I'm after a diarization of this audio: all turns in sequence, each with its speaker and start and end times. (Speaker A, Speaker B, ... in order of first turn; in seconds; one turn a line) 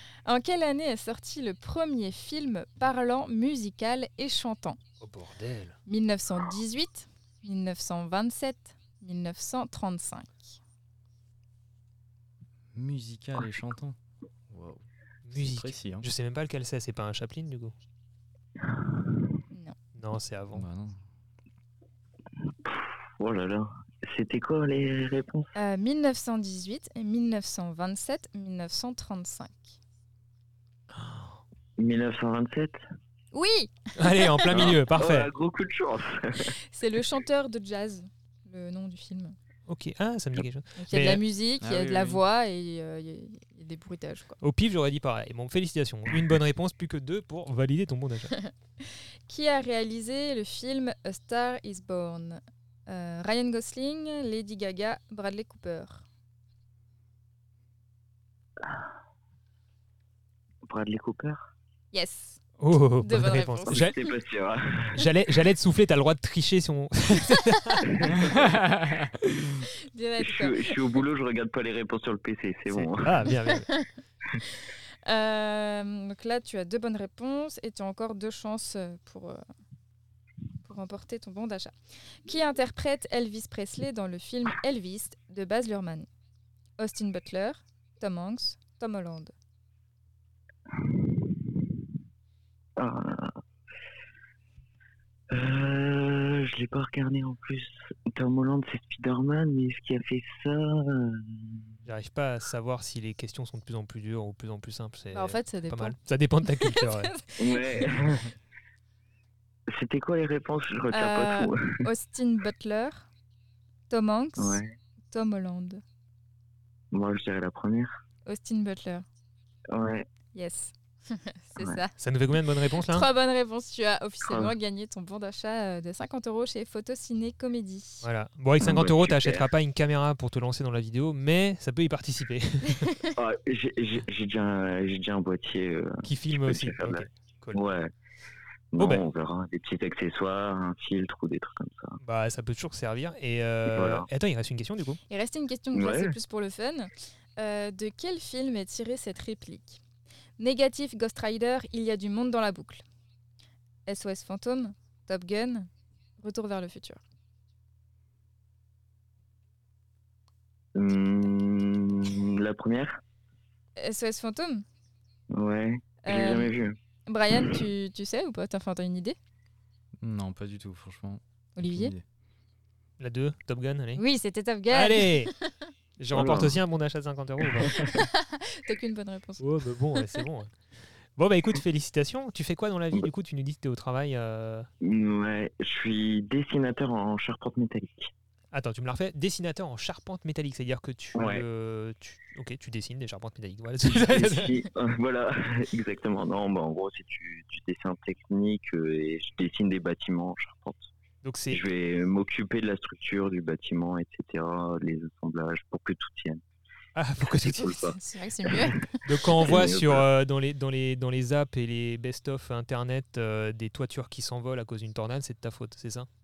Speaker A: 0.2-4.8
Speaker B: 5.0-5.8
Speaker A: 5.9-10.6
Speaker C: 12.7-14.0
Speaker C: 14.5-14.8
Speaker B: 15.2-17.8
Speaker C: 15.3-16.1
Speaker B: 20.0-20.6
Speaker C: 20.5-21.0
Speaker D: 22.6-25.5
Speaker A: 25.6-29.8
Speaker D: 31.8-32.8
Speaker A: 33.3-34.5
Speaker B: 34.0-35.3
Speaker D: 34.5-36.5
Speaker A: 36.7-39.4
Speaker B: 39.7-41.2
Speaker A: 40.8-44.4
Speaker C: 41.6-42.2
Speaker B: 44.4-48.4
Speaker A: 48.3-56.1
Speaker D: 60.6-61.5
Speaker A: 61.9-62.4
Speaker B: 62.6-64.0
Speaker A: 62.9-64.0
Speaker D: 63.7-65.0
Speaker B: 65.0-68.4
Speaker C: 68.3-69.1
Speaker A: 69.9-70.8
Speaker D: 70.2-73.3
Speaker B: 72.7-73.7
Speaker A: 75.1-79.4
Speaker A: 80.7-81.7
Speaker A: 82.2-86.1
Speaker A: 86.8-89.3
Speaker D: 90.8-91.6
Speaker D: 92.8-93.3
Speaker D: 95.3-101.7
Speaker B: 101.9-107.1
Speaker A: 105.1-108.0
Speaker D: 107.4-108.3
Speaker D: 109.7-111.8
Speaker A: 110.9-113.1
Speaker A: 113.9-115.8
Speaker D: 114.4-114.7
Speaker D: 116.9-118.0
Speaker A: 118.3-119.0
Speaker D: 119.7-120.1
Speaker A: 120.3-122.0
Speaker B: 122.0-123.1
Speaker A: 122.7-128.1
Speaker D: 124.2-124.5
Speaker B: 128.0-132.9
Speaker D: 128.6-129.5
Speaker D: 133.2-137.9
Speaker B: 136.0-137.7
Speaker D: 138.7-142.0
Speaker B: 138.8-139.0
Speaker B: 142.0-145.0
Speaker D: 143.7-144.1
Speaker A: 145.1-149.8
Speaker D: 145.7-146.2
Speaker A: 150.4-152.8
Speaker A: 153.9-157.0
Speaker D: 160.8-163.0
Speaker A: 163.8-164.6
Speaker D: 165.3-166.8
Speaker A: 166.1-166.5
Speaker A: 167.1-169.2
Speaker C: 170.0-172.0
Speaker A: 171.6-171.9
Speaker B: 173.0-174.0
Speaker A: 173.9-175.5
Speaker B: 174.7-175.3
Speaker B: 176.0-177.8
Speaker D: 176.1-176.6
Speaker D: 177.6-178.0
Speaker A: 177.9-180.2
Speaker B: 179.4-180.5
Speaker B: 181.2-184.7
Speaker D: 184.8-188.1
Speaker B: 188.5-194.6
Speaker D: 191.2-191.4
Speaker D: 193.8-200.8
Speaker B: 201.2-201.6
Speaker D: 201.5-206.4
Speaker B: 206.9-207.8
Speaker D: 207.4-208.7
Speaker A: 207.6-209.1
Speaker B: 209.1-216.1
Speaker D: 209.3-210.1